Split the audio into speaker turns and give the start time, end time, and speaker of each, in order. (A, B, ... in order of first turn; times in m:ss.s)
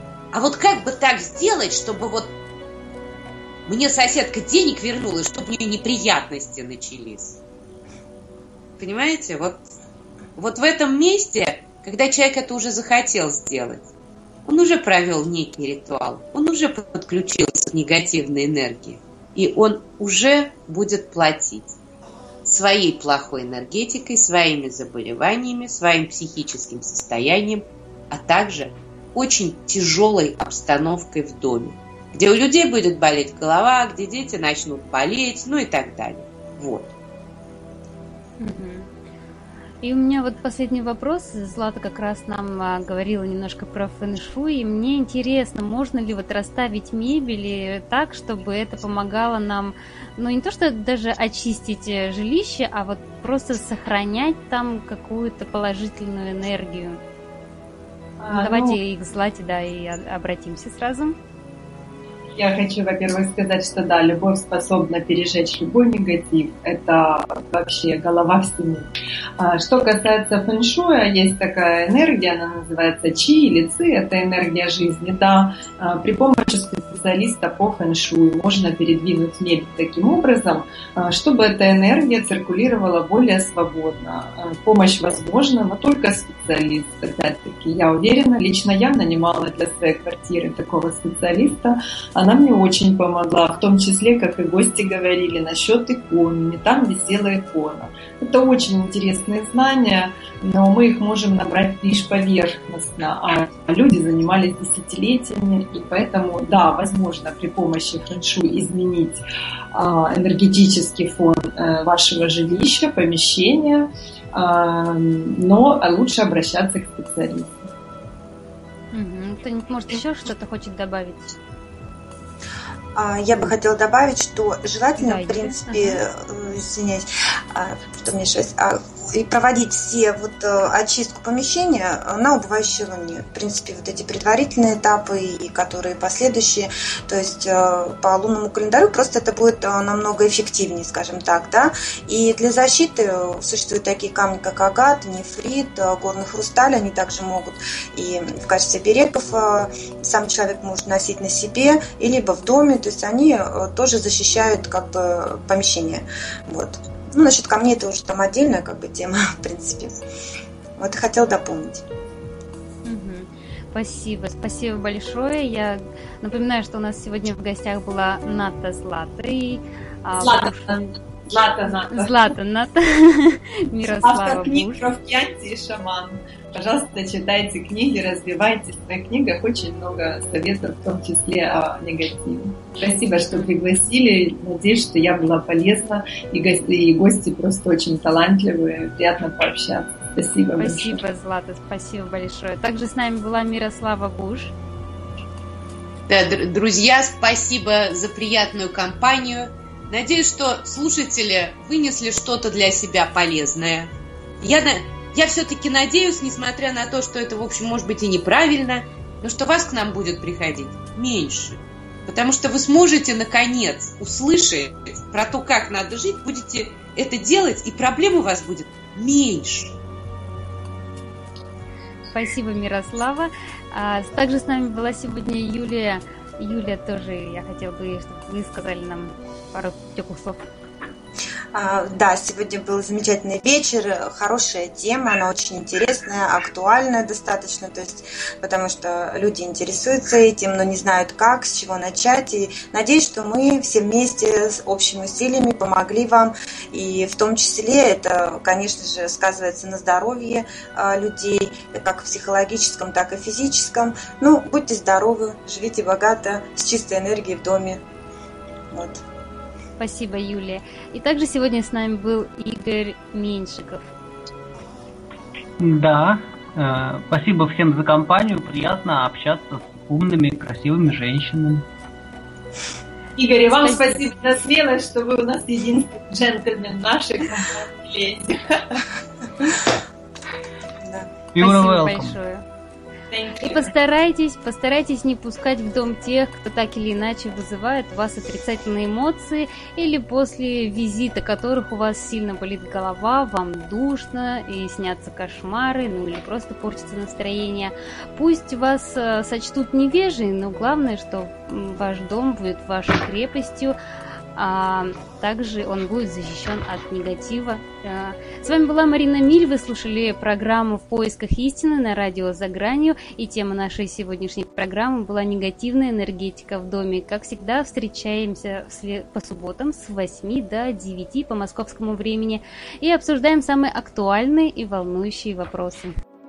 0:00.3-0:02.3 A
0:03.6-0:07.4 A
0:08.8-0:09.6 A
0:10.4-0:13.9 A
0:14.4-0:21.7 A
0:22.4-0:36.9 A
0:38.4-0:38.9 B
0:39.8-0:57.0 B
0:58.2-0:58.8 C
0:58.3-1:01.2 B
1:02.4-1:49.2 C
1:49.7-1:57.6 C
1:58.9-2:01.4 B
2:02.9-2:40.0 D
2:05.0-2:06.0 B
2:40.8-2:41.8 D
2:42.8-2:51.0 B
2:50.2-2:52.3 C
2:51.9-2:54.9 B
2:54.0-3:11.0 C
3:10.6-3:14.5 B
3:16.1-3:39.8 A
3:42.1-3:50.4 B
3:51.5-4:17.8 D
4:18.7-4:19.0 D
4:19.8-4:23.9 B
4:25.6-4:31.7 E
4:33.2-4:38.8 C
4:33.5-4:34.1 B
4:40.8-4:41.1 D
4:41.3-4:42.2 E
4:41.4-4:42.4 B
4:43.1-4:43.7 C
4:43.4-5:03.8 B
5:04.4-5:25.9 B